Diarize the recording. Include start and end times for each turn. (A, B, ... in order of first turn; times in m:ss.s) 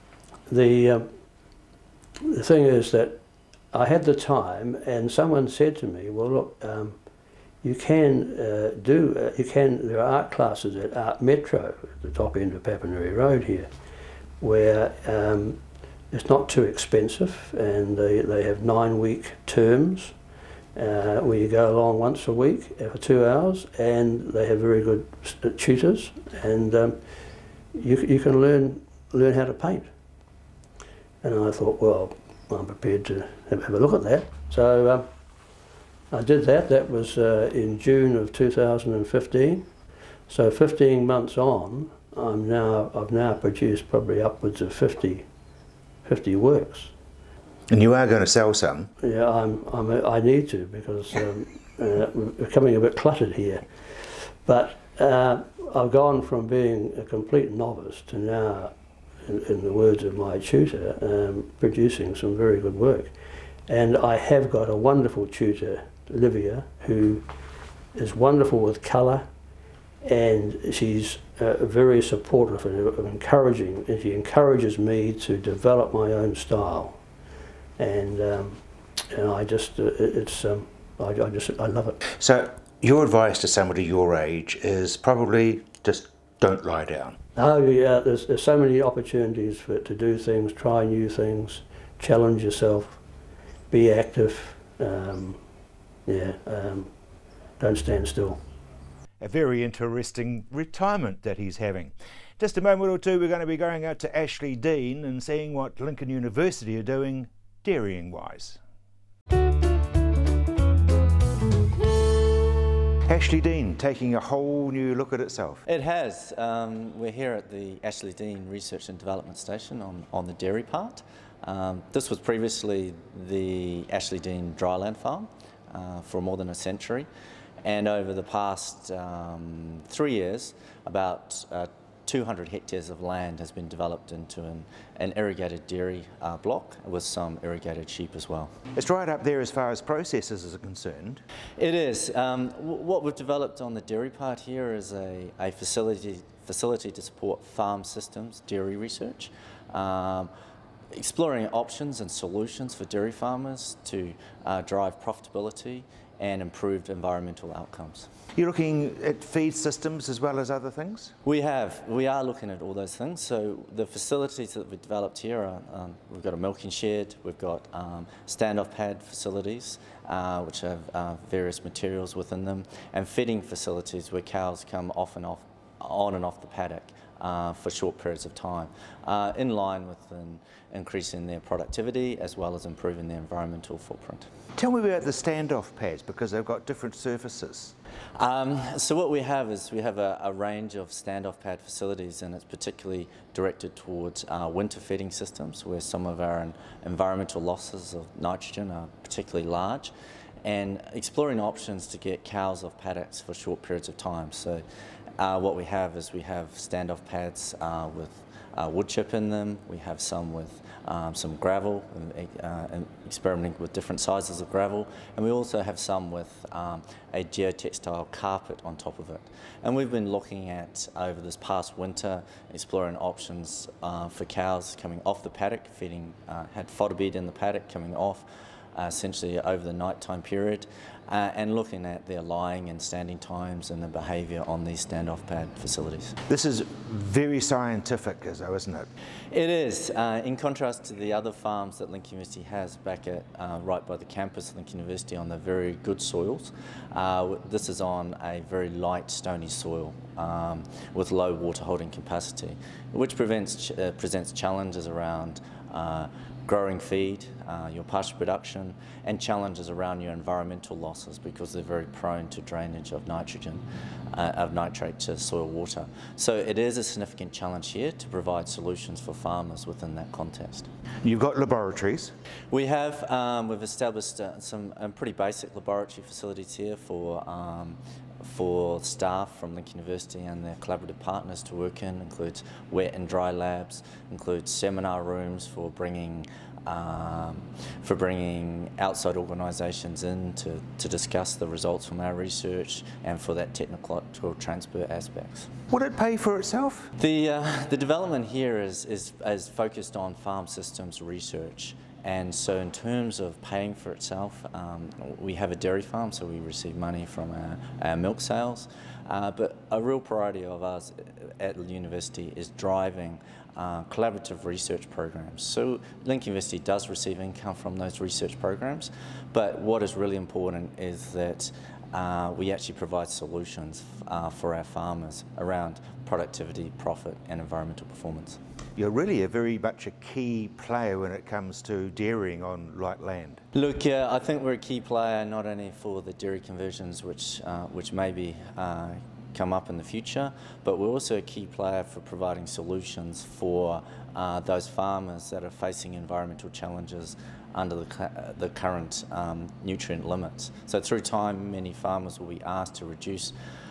0:00.5-0:01.1 A
0:02.3-0:03.2 A
0:03.7-0:07.0 A
0:07.6-0:13.7 A
0:14.4-0:20.2 A
0:20.8-0:27.0 A
0:27.7-0:29.9 A
0:31.2-0:35.1 A
0:36.1-0:39.7 A
0:40.3-0:45.3 A
0:46.0-0:46.9 A
0:47.7-0:48.9 B
0:49.0-1:03.1 A
1:03.7-1:07.3 A
1:07.9-1:09.3 A
1:10.0-1:17.0 A
1:17.8-1:22.0 A
1:22.1-1:27.2 B
1:27.4-1:33.0 A
1:33.7-1:35.4 A
1:36.1-1:36.9 A
1:37.6-1:38.4 A
1:39.2-1:48.6 B
1:53.1-1:55.6 B
1:55.7-2:07.1 C
2:07.6-2:18.6 C
2:18.7-2:21.2 B
2:21.6-2:30.3 C
2:30.9-2:38.1 C
2:38.3-2:41.1 B
2:41.2-3:04.3 C
3:04.6-3:07.8 B
3:08.2-3:24.6 C
3:25.2-3:56.2 C
3:56.3-3:58.9 B
3:59.3-4:30.7 C
4:31.0-4:32.1 B
4:32.5-4:55.5 C
4:55.7-4:56.9 B
4:57.0-5:28.4 C
5:28.8-5:33.4 B
5:33.5-5:53.4 C